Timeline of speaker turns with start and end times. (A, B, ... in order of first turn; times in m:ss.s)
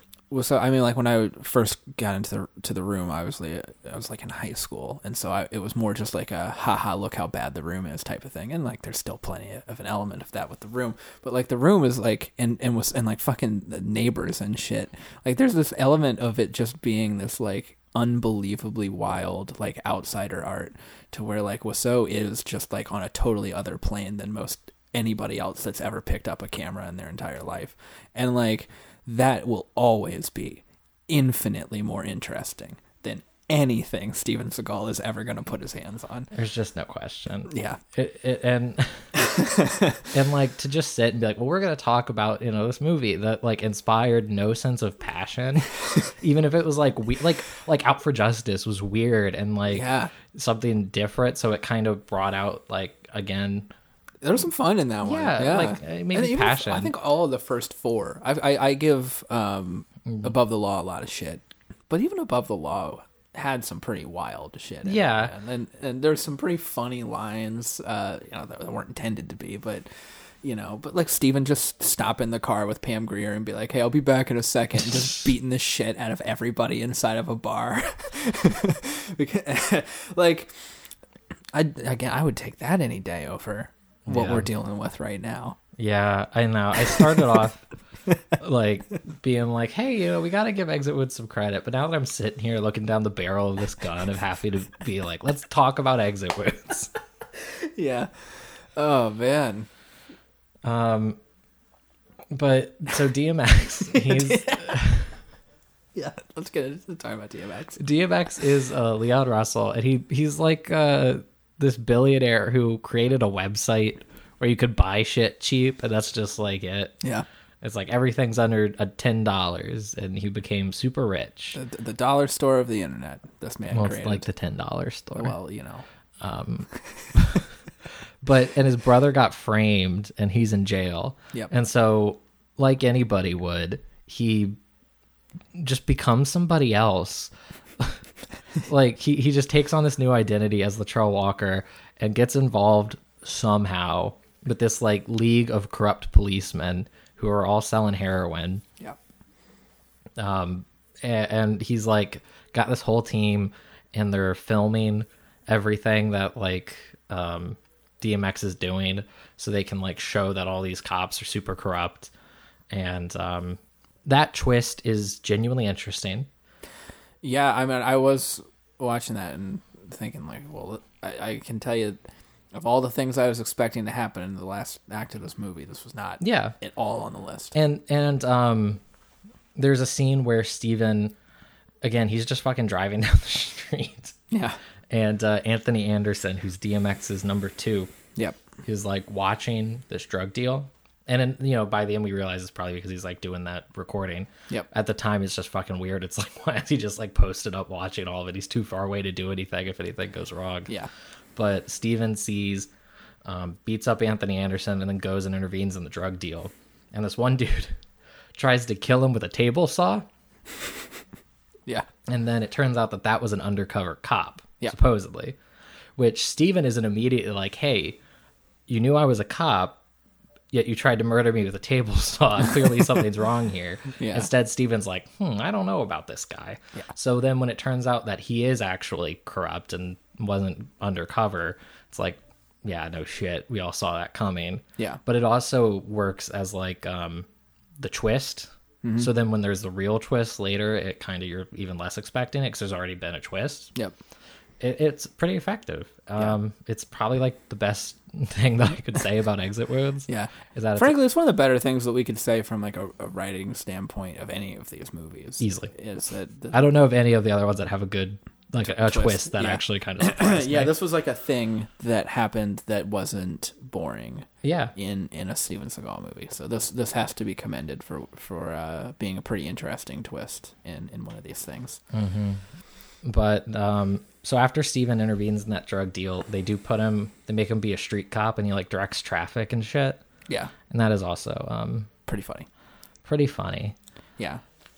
0:00.3-0:36.3 A
0:36.3-0:39.2 B
0:37.5-0:37.8 A
0:39.3-0:40.0 A
0:40.1-0:53.7 B
0:49.7-0:50.1 A
0:54.2-1:09.9 A
0:55.0-0:56.9 B
1:04.8-1:05.3 B
1:10.4-1:20.5 A
1:21.5-1:25.6 A
1:24.1-1:24.5 B
1:25.8-1:27.6 B
1:28.4-1:36.9 B
1:37.4-1:39.7 A
1:40.6-1:41.2 B
1:42.3-1:45.1 B
1:44.0-1:44.8 A
1:46.0-1:47.8 A
1:47.8-1:57.0 B
1:57.6-2:01.6 B
2:01.5-2:04.3 A
2:03.7-2:05.3 B
2:05.2-2:05.8 A
2:06.2-2:07.4 B
2:08.2-2:14.6 B
2:15.6-2:18.0 B
2:18.6-2:28.6 B
2:30.2-2:42.1 B
2:42.7-2:46.3 B
2:47.2-2:52.0 A
2:52.5-2:57.6 A
2:56.2-2:56.6 B
2:57.5-2:58.8 B
2:59.6-3:01.2 B
3:01.8-3:04.2 B
3:04.3-3:04.6 A
3:04.9-3:07.9 B
3:08.6-3:20.7 B
3:21.4-3:22.7 B
3:23.2-3:27.8 B
3:28.4-3:30.1 B
3:32.1-3:35.4 B
3:36.0-3:38.0 B
3:38.7-3:39.8 B
3:40.5-3:57.3 B
3:44.0-3:44.3 A
3:57.8-4:03.7 B
3:58.8-3:59.1 A
4:04.6-4:11.0 B
4:10.1-4:16.6 A
4:15.4-4:15.7 B
4:16.5-4:20.8 B
4:18.6-4:31.8 A
4:24.4-4:24.7 B
4:31.9-4:32.4 B
4:33.0-4:40.0 B
4:40.3-4:40.5 A
4:40.7-4:41.9 B
4:42.1-4:42.5 A
4:43.0-4:43.8 B